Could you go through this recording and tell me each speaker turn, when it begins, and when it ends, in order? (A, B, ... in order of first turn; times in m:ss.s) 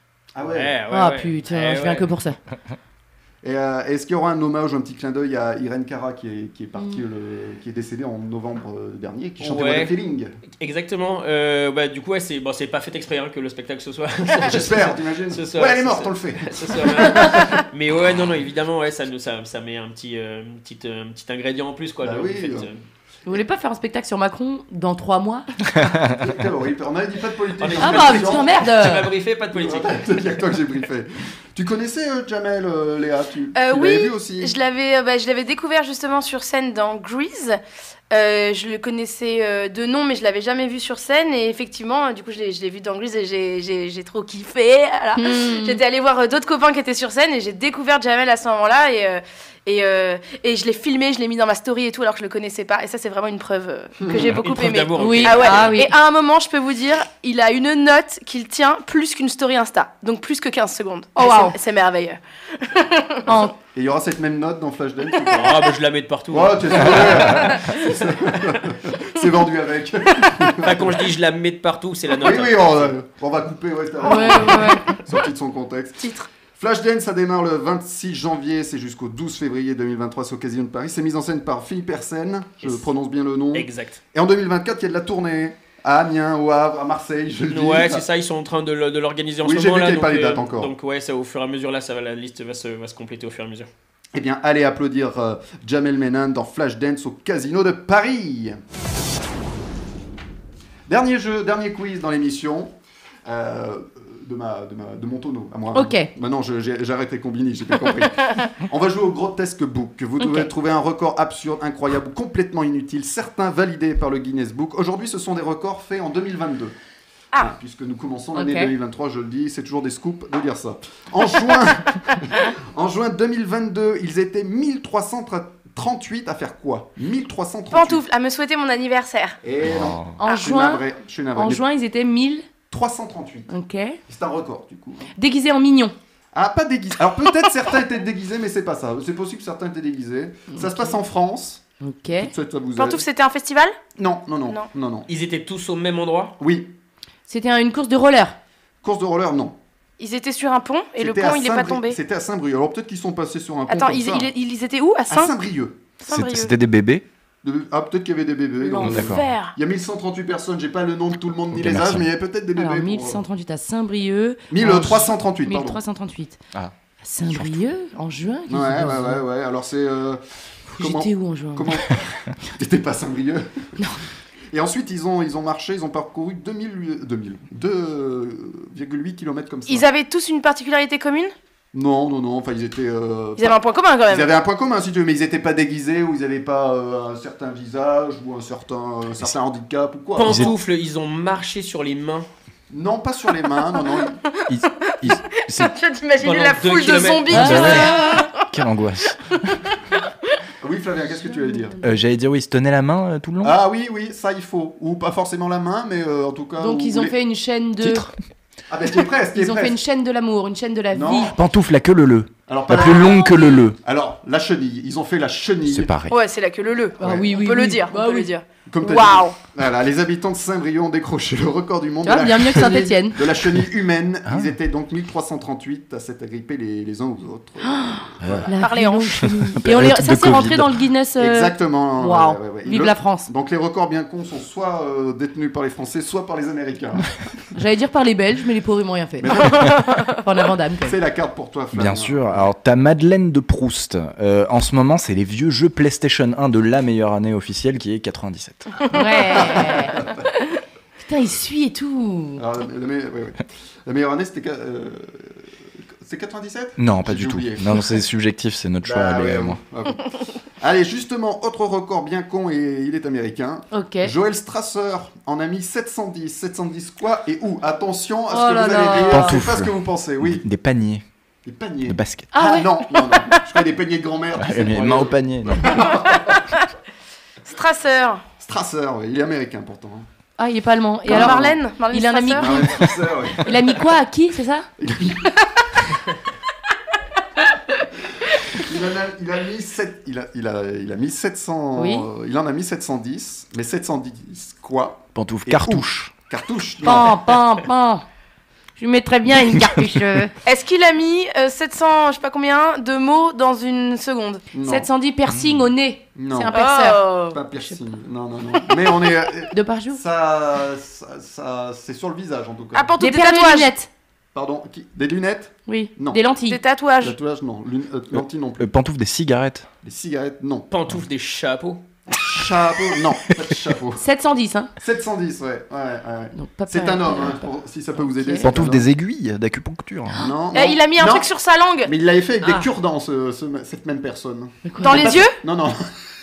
0:00.3-0:00.7 A
0:00.5-0:02.1 B
0:00.9-0:02.4 C
0:03.4-0:10.3 A
0:09.4-0:10.0 B
0:10.6-0:22.8 B
0:14.4-0:17.6 A
0:22.0-0:22.7 A
0:23.2-0:25.4 C
0:26.0-0:28.5 A
0:27.6-0:30.3 B
0:27.8-0:29.1 C
0:29.5-0:34.5 A
0:33.5-0:37.6 D
0:38.1-1:03.4 D
0:45.2-0:45.8 C
0:54.0-0:54.4 A
0:54.2-0:55.8 B
0:55.0-0:55.9 C
1:01.2-1:01.5 C
1:03.3-1:03.5 C
1:03.4-1:05.6 A
1:05.2-1:05.5 D
1:05.3-1:08.1 B
1:06.3-1:11.1 A
1:10.6-1:12.9 B
1:12.2-1:28.0 A
1:14.0-1:14.9 C
1:14.0-1:14.8 D
1:16.0-1:16.3 D
1:23.5-1:24.0 B
1:27.5-1:33.7 B
1:29.4-1:30.7 A
1:34.1-1:38.6 A
1:40.9-1:56.7 A
1:45.7-1:46.1 C
1:50.2-1:50.5 C
1:57.3-2:08.0 A
1:58.3-1:58.7 C
2:07.7-2:09.4 D
2:09.4-2:11.6 A
2:09.6-2:10.2 E
2:10.2-2:10.8 C
2:11.3-2:12.4 C
2:12.7-2:13.5 A
2:13.5-2:14.0 C
2:14.1-2:15.1 A
2:15.2-2:15.9 C
2:16.3-2:23.0 A
2:20.5-2:21.0 C
2:21.8-2:22.3 C
2:22.8-2:23.8 D
2:24.0-2:25.1 A
2:25.1-2:26.3 B
2:26.4-2:26.7 A
2:27.3-2:28.4 C
2:28.8-2:29.6 A
2:30.0-2:32.0 D
2:31.0-2:34.3 A
2:33.7-2:35.3 D
2:35.1-2:35.8 A
2:36.0-2:36.5 D
2:36.1-2:37.0 E
2:37.4-2:43.2 A
2:38.6-2:39.0 C
2:38.8-2:39.5 D
2:38.8-2:39.2 E
2:41.5-2:42.0 E
2:42.6-2:46.4 C
2:44.5-2:45.8 A
2:47.0-2:49.2 C
2:47.2-2:47.6 E
2:48.5-2:50.2 A
2:50.7-2:51.8 C
2:50.7-2:53.5 A
2:54.5-2:59.9 A
2:59.7-3:01.3 D
3:01.7-3:10.5 A
3:03.4-3:04.3 D
3:10.2-3:12.3 B
3:10.2-3:10.5 E
3:12.7-3:14.2 A
3:14.5-3:15.7 E
3:14.6-3:18.5 D
3:16.2-3:17.9 B
3:17.3-3:19.5 E
3:17.4-3:17.9 C
3:20.6-3:21.8 A
3:21.2-3:21.9 C
3:21.8-3:23.5 E
3:23.4-3:27.2 A
3:26.6-3:28.1 C
3:27.8-3:28.1 E
3:28.7-3:29.8 A
3:29.3-3:31.3 C
3:30.9-3:31.4 A
3:31.3-3:33.8 E
3:32.5-3:35.9 A
3:35.7-3:36.2 E
3:36.1-3:39.4 D
3:37.0-3:37.4 A
3:37.0-3:38.3 C
3:38.6-3:48.5 A
3:42.0-3:43.2 C
3:47.6-3:53.3 C
3:48.2-3:48.5 E
3:48.6-3:49.2 D
3:49.2-3:50.8 E
3:51.2-3:57.2 A
3:57.5-3:59.6 C
3:59.2-3:59.8 A
4:00.2-4:01.0 C
4:00.8-4:02.5 A
4:01.7-4:08.7 E
4:08.9-4:10.0 C
4:09.2-4:10.3 A
4:11.0-4:12.4 C
4:12.4-4:17.9 A
4:16.8-4:19.6 E
4:18.8-4:20.0 A
4:20.6-4:30.4 A
4:23.7-4:24.1 C
4:28.3-4:29.4 C
4:29.0-4:31.0 E
4:31.4-4:36.4 A
4:31.8-4:32.3 E
4:32.3-4:33.4 C
4:34.4-4:35.8 E
4:37.4-4:38.2 D
4:38.4-4:40.1 A
4:40.4-4:42.9 C
4:41.1-4:41.6 A
4:41.1-4:42.8 D
4:42.4-4:43.5 A
4:43.4-4:44.7 C
4:44.8-4:45.5 A
4:48.5-4:57.2 A
4:51.7-4:52.1 C
4:55.1-4:56.1 E
4:56.8-4:58.0 C
4:58.8-5:00.3 C
5:00.4-5:04.4 D
5:04.5-5:04.9 A
5:04.6-5:07.0 C
5:05.3-5:05.7 E
5:06.2-5:06.6 A
5:06.5-5:07.4 D
5:07.3-5:13.1 A
5:09.5-5:10.0 C
5:12.7-5:13.7 D
5:13.0-5:13.9 C
5:14.3-5:16.2 A
5:15.7-5:16.6 C
5:16.5-5:17.2 D
5:17.0-5:18.7 A
5:18.1-5:19.7 E
5:19.8-5:20.7 A
5:20.7-5:21.8 B
5:22.1-5:24.0 A
5:24.0-5:24.7 C
5:24.8-5:28.8 A
5:26.3-5:28.5 C
5:28.4-5:30.2 E
5:30.2-5:31.3 A
5:30.5-5:31.9 D
5:31.8-5:35.8 A
5:34.6-5:35.2 C
5:34.8-5:35.4 D